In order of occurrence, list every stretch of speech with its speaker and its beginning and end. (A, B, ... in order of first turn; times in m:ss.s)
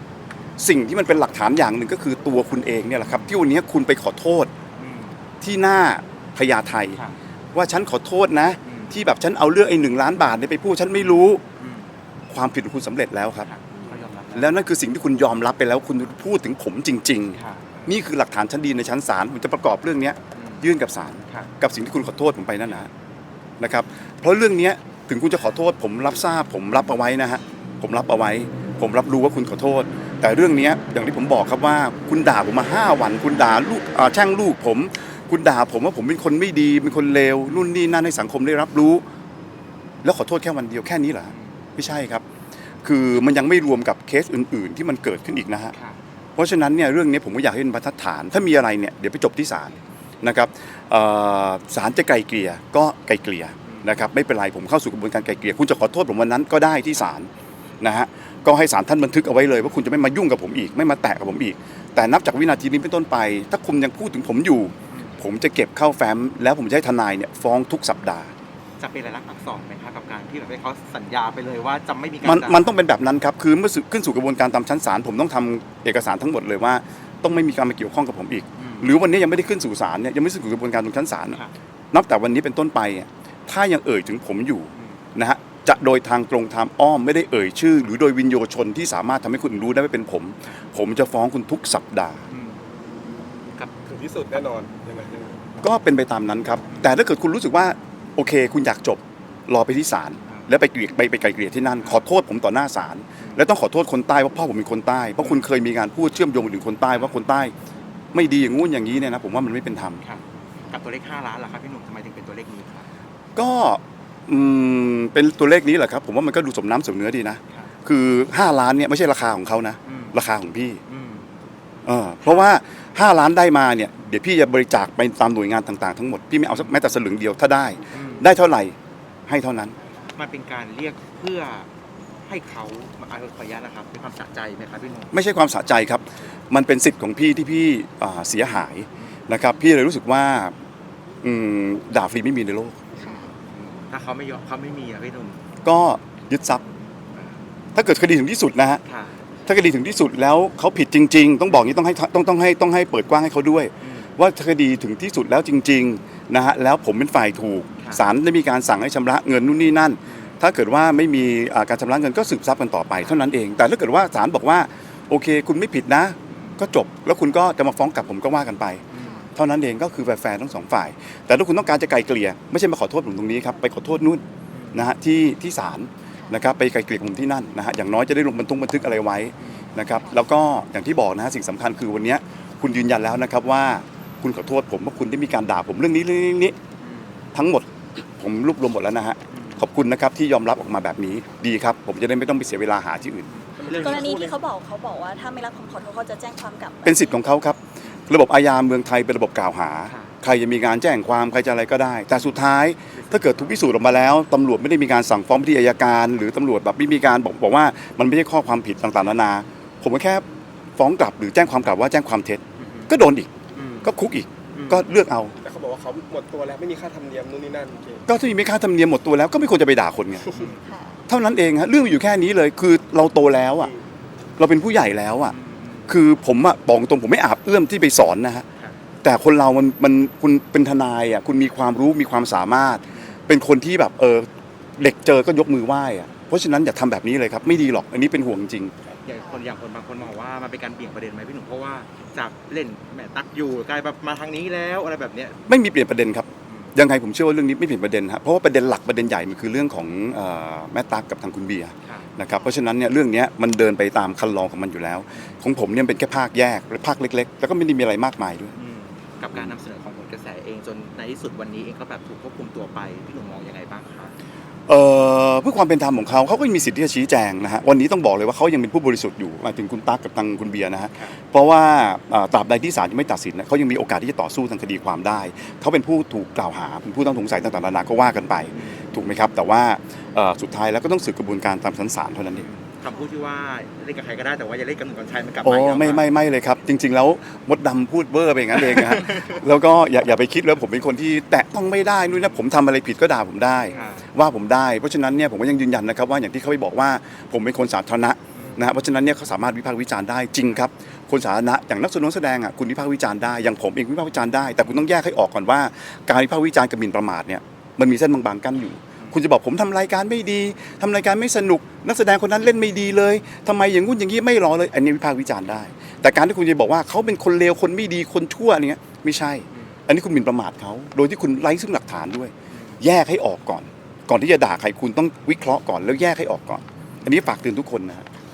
0:00.6-0:04.5 A
0:04.8-0:05.2 B
0:05.4-0:07.0 A
0:07.5-0:11.4 A
0:08.6-0:08.9 B
0:11.0-0:11.9 B
0:12.3-0:13.5 A
0:13.4-0:14.6 B
0:14.3-0:22.9 A
0:17.4-0:17.9 B
0:20.3-0:20.6 B
0:23.6-0:39.0 A
0:40.0-0:42.2 A
0:42.8-0:45.7 A
0:46.4-0:57.3 A
0:57.8-1:08.3 A
1:08.8-1:12.7 B
1:12.2-1:21.4 A
1:18.6-1:18.9 B
1:21.9-1:32.2 A
1:32.3-1:32.6 B
1:33.8-1:35.4 C
1:35.6-1:47.5 A
1:48.1-1:50.0 A
1:50.0-1:52.9 B
1:53.3-2:00.8 A
1:59.8-2:00.2 B
2:00.9-2:01.3 B
2:01.8-2:08.7 A
2:07.9-2:08.2 B
2:09.3-2:09.8 A
2:10.2-2:11.7 B
2:12.2-2:15.1 B
2:15.1-2:20.5 A
2:21.2-2:22.8 A
2:23.0-2:23.3 D
2:23.5-2:25.4 B
2:25.6-2:26.6 A
2:27.7-2:28.8 A
2:28.8-2:29.2 B
2:29.4-2:48.8 A
2:33.8-2:34.1 B
2:48.9-2:49.2 B
2:49.0-2:49.3 D
2:49.3-3:06.6 A
2:54.5-2:54.8 B
2:59.4-2:59.7 B
3:06.8-3:07.2 B
3:07.3-3:13.3 A
3:09.3-3:09.6 B
3:13.3-3:14.0 B
3:13.6-3:14.3 C
3:13.6-3:17.3 D
3:16.8-3:30.2 A
3:30.8-3:33.3 A
3:32.6-3:32.9 B
3:33.5-3:33.9 B
3:33.8-3:35.3 A
3:34.5-3:34.9 B
3:35.4-3:38.0 C
3:38.1-3:40.5 A
3:40.3-3:40.6 B
3:40.6-3:41.0 D
3:41.1-3:43.7 A
3:44.4-3:48.4 A
3:45.3-3:45.9 B
3:49.0-3:58.7 A
3:59.0-4:05.4 B
4:05.5-4:18.5 A
4:18.5-4:24.1 B
4:24.7-4:42.5 A
4:42.4-4:46.1 B
4:45.4-5:28.1 A
4:48.7-4:49.4 B
4:53.7-4:54.0 B
4:58.4-4:58.6 B
5:22.5-5:22.8 B